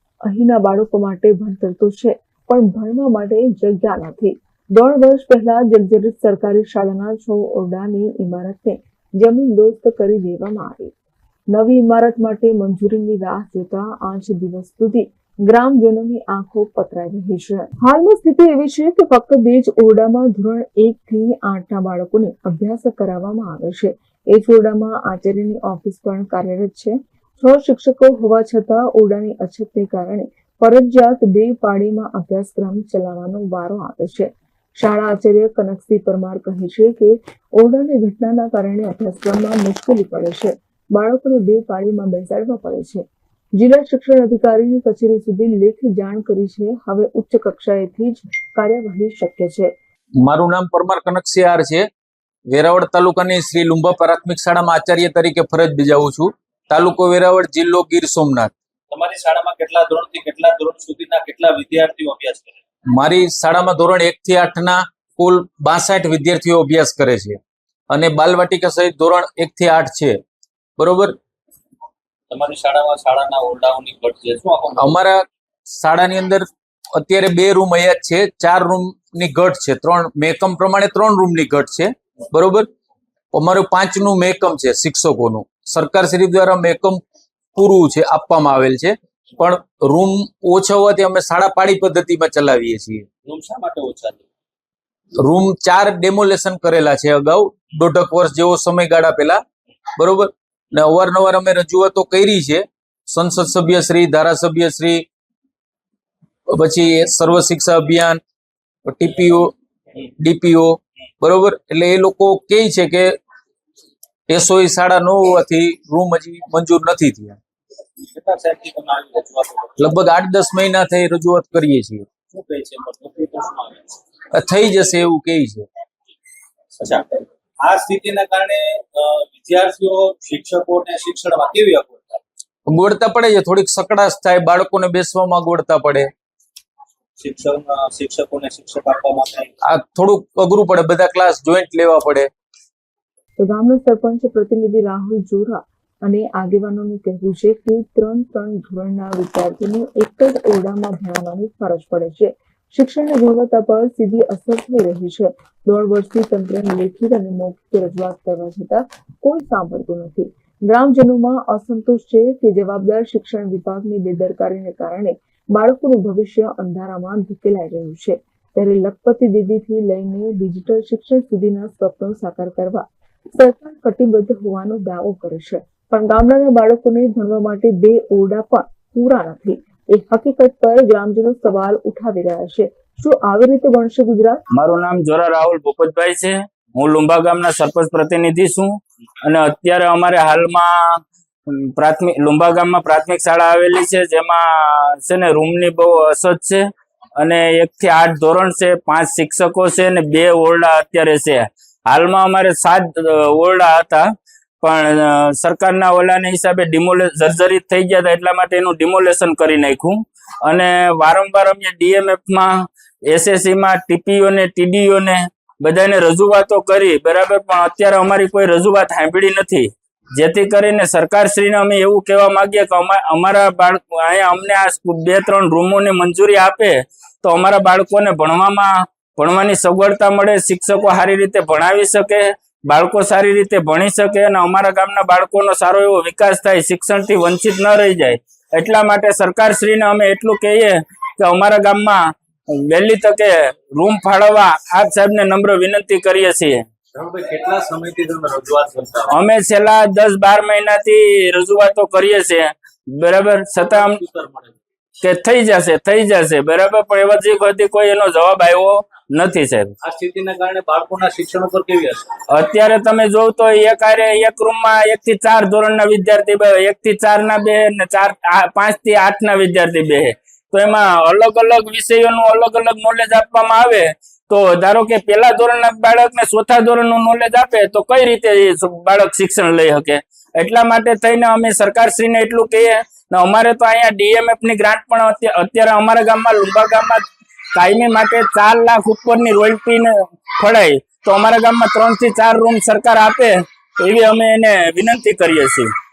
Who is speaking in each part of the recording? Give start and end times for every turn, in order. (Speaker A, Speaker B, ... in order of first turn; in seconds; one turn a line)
Speaker A: 0.2-10.9
Speaker A: 11.5-43.0
Speaker A: 43.6-49.7
Speaker B: 50.2-51.9
Speaker B: 52.5-58.5
Speaker C: 58.9-62.6
Speaker B: 62.9-67.4
Speaker B: 67.9-70.2
Speaker B: 70.8-71.2
Speaker C: 72.3-74.9
Speaker B: 74.8-82.7
Speaker B: 83.3-87.0
Speaker B: 87.5-93.1
Speaker C: 93.3-94.3
Speaker B: 95.2-99.4
Speaker B: 100.0-105.0
Speaker B: 106.5-108.2
Speaker B: 108.9-109.5
Speaker B: 110.2-113.2
Speaker B: 114.3-117.4
Speaker C: 118.1-119.8
Speaker B: 119.8-122.1
Speaker C: 122.3-124.0
Speaker B: 124.3-125.7
Speaker C: 126.8-132.2
Speaker B: 132.7-136.1
Speaker C: 137.2-139.6
Speaker B: 139.7-142.3
Speaker A: 143.4-184.4
Speaker D: 184.5-196.7
Speaker D: 197.2-204.1
Speaker D: 204.6-246.7
Speaker C: 246.9-249.1
Speaker D: 249.1-254.0
Speaker C: 253.8-254.6
Speaker D: 255.0-259.8
Speaker C: 259.8-262.2
Speaker D: 262.3-295.7